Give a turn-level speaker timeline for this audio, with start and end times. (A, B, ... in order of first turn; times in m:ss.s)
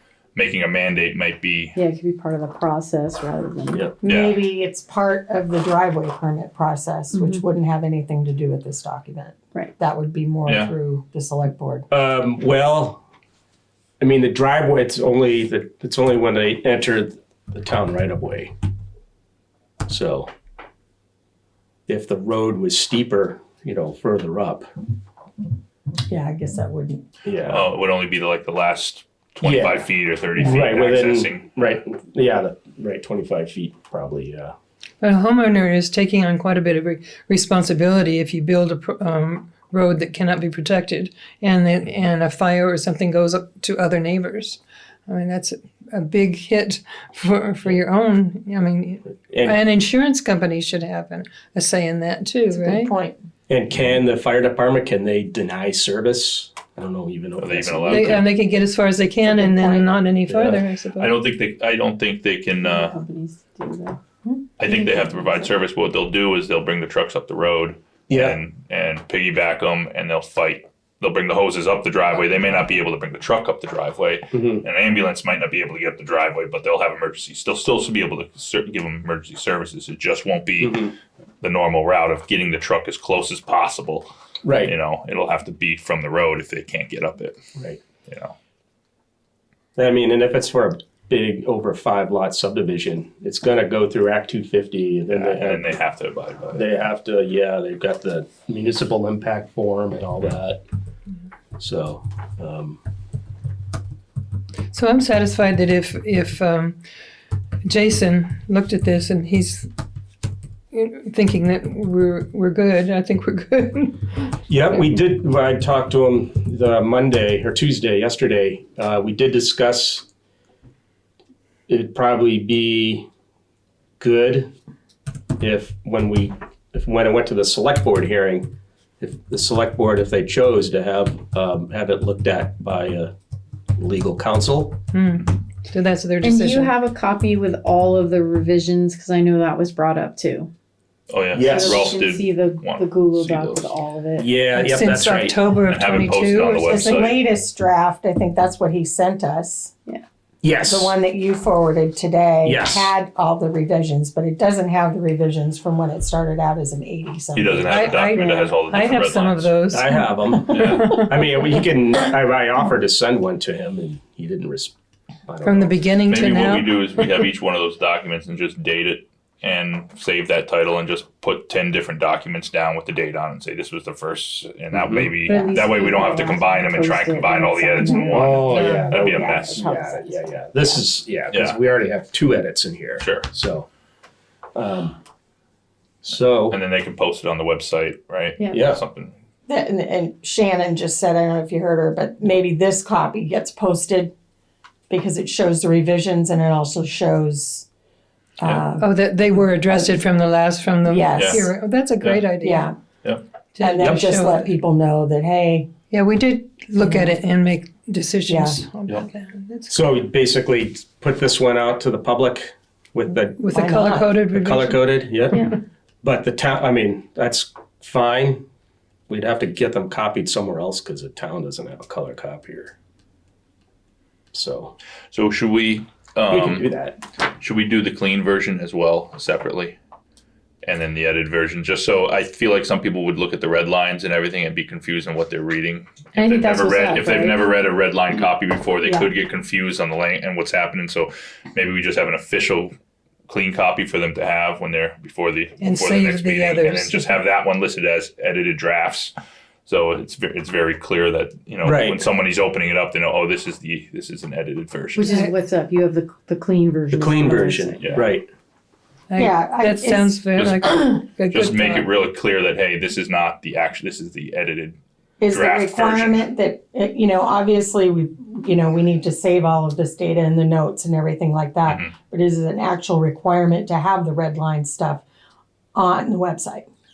0:00.4-0:01.8 A
0:01.8-0:04.0 B
0:04.0-0:11.8 C
0:04.0-0:04.4 A
0:07.1-0:07.4 B
0:10.5-0:10.7 A
0:11.9-0:13.0 D
0:14.0-0:18.5 D
0:19.9-0:20.3 D
0:21.9-0:24.7 D
0:26.1-0:27.0 C
0:27.2-0:27.6 D
0:27.5-0:31.6 A
0:29.4-0:29.9 D
0:30.4-0:34.5 D
0:35.0-0:52.9 E
0:49.3-0:49.6 D
0:52.5-0:53.2 C
0:53.5-0:58.2 D
0:57.4-0:58.2 A
0:57.9-1:01.2 E
0:59.2-0:59.9 C
1:00.3-1:03.0 A
1:02.6-1:05.5 B
1:04.6-1:24.1 A
1:08.1-1:08.4 D
1:14.3-1:14.6 D
1:24.4-1:24.7 D
1:24.6-1:27.4 A
1:28.1-1:28.3 A
1:29.8-1:35.8 D
1:35.1-1:36.6 A
1:36.6-1:40.6 D
1:41.6-1:42.8 D
1:44.7-1:46.8 E
1:47.6-1:49.7 E
1:50.7-1:54.0 E
1:54.5-2:00.1 D
2:01.7-2:03.1 D
2:04.0-2:04.5 D
2:05.4-2:13.1 D
2:13.8-2:14.8 D
2:14.9-2:16.7 E
2:16.2-2:20.5 B
2:21.1-2:23.7 A
2:21.3-2:22.0 D
2:21.4-2:24.3 B
2:24.2-2:25.4 D
2:24.5-2:27.0 E
2:25.7-2:27.2 A
2:26.6-2:29.7 C
2:30.4-2:31.0 D
2:30.7-2:37.9 C
2:32.4-2:32.9 D
2:37.3-2:39.5 A
2:37.7-2:41.2 E
2:38.1-2:38.6 B
2:39.7-2:44.7 D
2:40.5-2:40.9 A
2:45.3-2:45.8 D
2:45.4-2:46.8 E
2:46.1-2:59.6 A
2:54.7-2:55.1 D
2:55.3-3:00.8 B
2:58.1-3:03.7 D
2:58.5-2:58.9 E
3:01.3-3:01.6 A
3:03.0-3:03.3 A
3:04.6-3:05.0 D
3:06.0-3:06.6 D
3:06.5-3:09.1 A
3:08.5-3:08.8 D
3:09.5-3:14.1 C
3:14.9-3:17.7 C
3:18.4-3:19.9 C
3:18.8-3:22.7 E
3:20.9-3:21.5 C
3:21.2-3:21.5 A
3:22.0-3:22.3 A
3:22.4-3:22.7 C
3:23.6-3:24.6 E
3:23.6-3:25.7 C
3:23.8-3:24.0 D
3:25.9-3:29.7 E
3:26.8-3:27.2 C
3:28.3-3:28.6 C
3:29.7-3:33.4 D
3:33.4-3:34.8 E
3:33.5-3:34.2 C
3:34.3-3:35.5 D
3:36.0-3:38.4 D
3:39.1-3:42.8 D
3:44.3-3:44.8 D
3:45.1-3:46.7 A
3:46.3-3:47.0 D
3:47.4-3:49.8 A
3:50.6-4:02.7 A
3:56.2-3:57.4 B
3:58.8-3:59.1 C
4:03.3-4:09.1 A
4:05.6-4:07.1 E
4:09.7-4:15.2 A
4:11.6-4:12.1 D
4:15.0-4:17.8 B
4:15.1-4:15.3 E
4:16.9-4:18.3 D
4:17.8-4:18.1 A
4:19.1-4:21.9 E
4:19.2-4:20.2 C
4:20.4-4:24.8 A
4:25.2-4:35.0 C
4:25.3-4:26.3 A
4:31.7-4:31.9 A
4:35.8-4:36.7 C